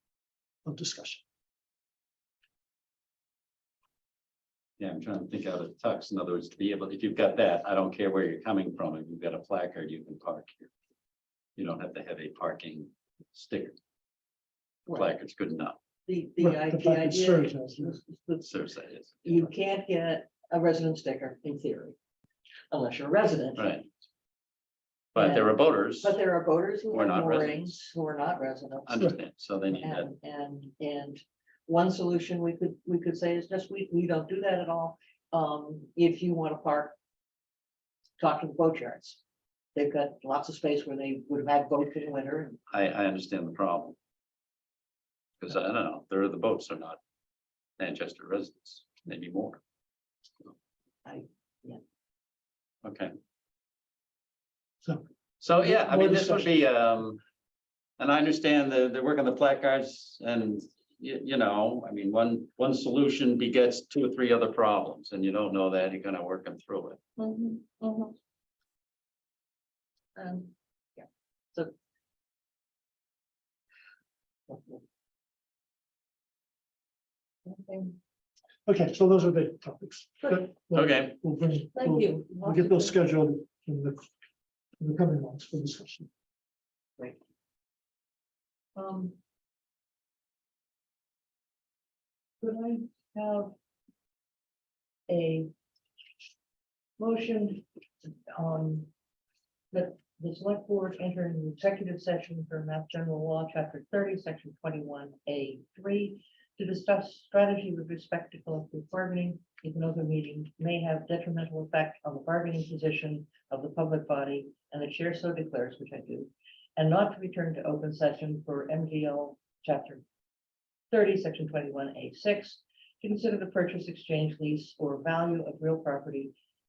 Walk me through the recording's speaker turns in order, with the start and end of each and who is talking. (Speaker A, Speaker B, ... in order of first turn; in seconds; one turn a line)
Speaker A: 0.6-1.2
Speaker B: 4.8-10.7
Speaker B: 11.6-13.8
Speaker B: 14.9-15.8
Speaker C: 16.1-18.4
Speaker A: 16.4-18.0
Speaker B: 18.4-19.5
Speaker C: 19.2-21.9
Speaker C: 22.7-23.7
Speaker B: 23.6-23.9
Speaker B: 25.1-26.2
Speaker C: 25.1-29.1
Speaker B: 26.9-27.7
Speaker B: 28.9-30.1
Speaker C: 29.8-36.9
Speaker C: 38.2-39.2
Speaker C: 39.7-42.6
Speaker B: 42.7-44.0
Speaker B: 45.4-47.0
Speaker B: 47.8-49.6
Speaker C: 51.0-51.8
Speaker B: 52.8-53.1
Speaker B: 55.4-57.2
Speaker A: 55.6-56.5
Speaker B: 58.0-67.0
Speaker C: 67.2-68.1
Speaker C: 70.2-71.7
Speaker C: 74.5-74.8
Speaker C: 77.4-78.0
Speaker A: 78.7-84.1
Speaker B: 80.7-81.1
Speaker C: 81.7-83.0
Speaker A: 84.8-86.1
Speaker C: 88.8-89.2
Speaker C: 92.4-93.5
Speaker C: 95.1-95.5
Speaker C: 97.0-98.9
Speaker C: 99.7-120.0
Speaker C: 120.9-126.3